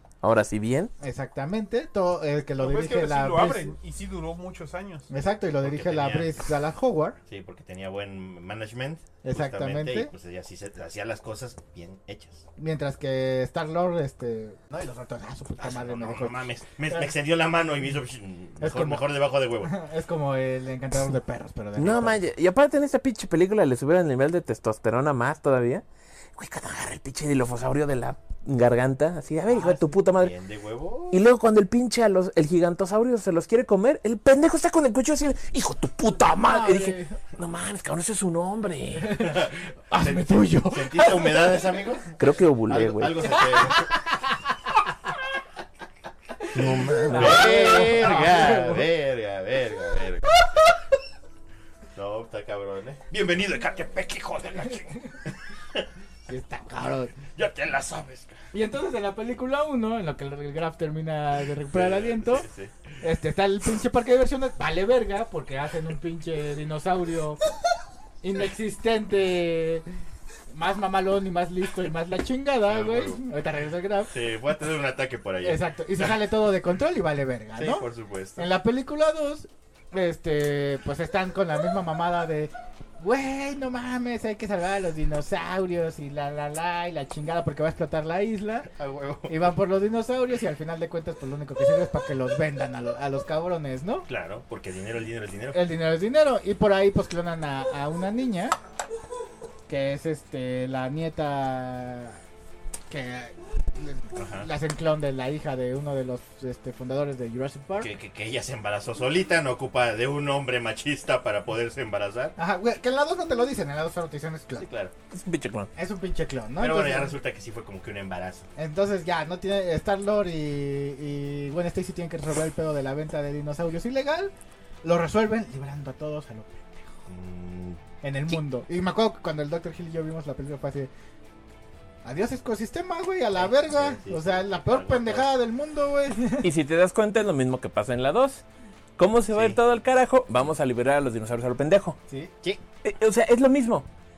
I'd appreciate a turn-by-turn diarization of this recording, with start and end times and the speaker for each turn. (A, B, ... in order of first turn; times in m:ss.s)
0:00.2-0:00.9 A
0:01.0-0:03.7 B
0:02.6-0:05.1 C
0:05.1-0:07.2 B
0:05.6-0:06.3 D
0:07.3-0:12.4 D
0:09.2-0:10.1 B
0:12.6-0:17.0 B
0:15.6-0:19.7 D
0:18.6-0:22.2 B
0:21.8-0:25.8 A
0:26.4-0:30.3 A
0:29.5-0:29.9 B
0:29.6-0:31.2 D
0:31.1-0:39.3 A
0:36.3-0:37.2 B
0:39.0-0:41.6 B
0:39.2-0:42.1 D
0:42.2-0:43.3 A
0:42.7-0:43.9 D
0:43.4-0:44.0 B
0:46.4-0:48.9 B
0:46.5-0:47.9 A
0:47.0-0:50.3 D
0:52.0-0:55.9 D
0:56.3-0:57.2 B
0:57.4-0:58.4 D
0:58.5-1:02.5 B
1:01.7-1:02.8 D
1:03.0-1:07.4 B
1:08.2-1:09.9 B
1:10.5-1:14.1 B
1:12.7-1:13.2 D
1:14.1-1:16.1 D
1:15.4-1:17.9 B
1:17.6-1:18.5 D
1:18.4-1:28.7 B
1:28.7-1:29.5 D
1:29.3-1:34.1 B
1:34.1-1:35.7 D
1:35.5-1:38.6 B
1:39.7-1:42.2 B
1:42.9-1:48.0 B
1:44.2-1:44.5 D
1:47.8-1:52.4 D
1:52.4-1:54.7 B
1:54.6-1:54.9 D
1:55.1-1:55.7 A
1:55.8-1:57.2 B
1:56.6-1:58.5 D
1:58.6-2:07.0 B
2:07.1-2:07.8 D
2:08.0-2:10.9 B
2:12.0-2:16.5 B
2:13.4-2:15.3 D
2:16.4-2:18.4 A
2:19.0-2:22.0 A
2:19.3-2:19.6 D
2:22.8-2:23.9 A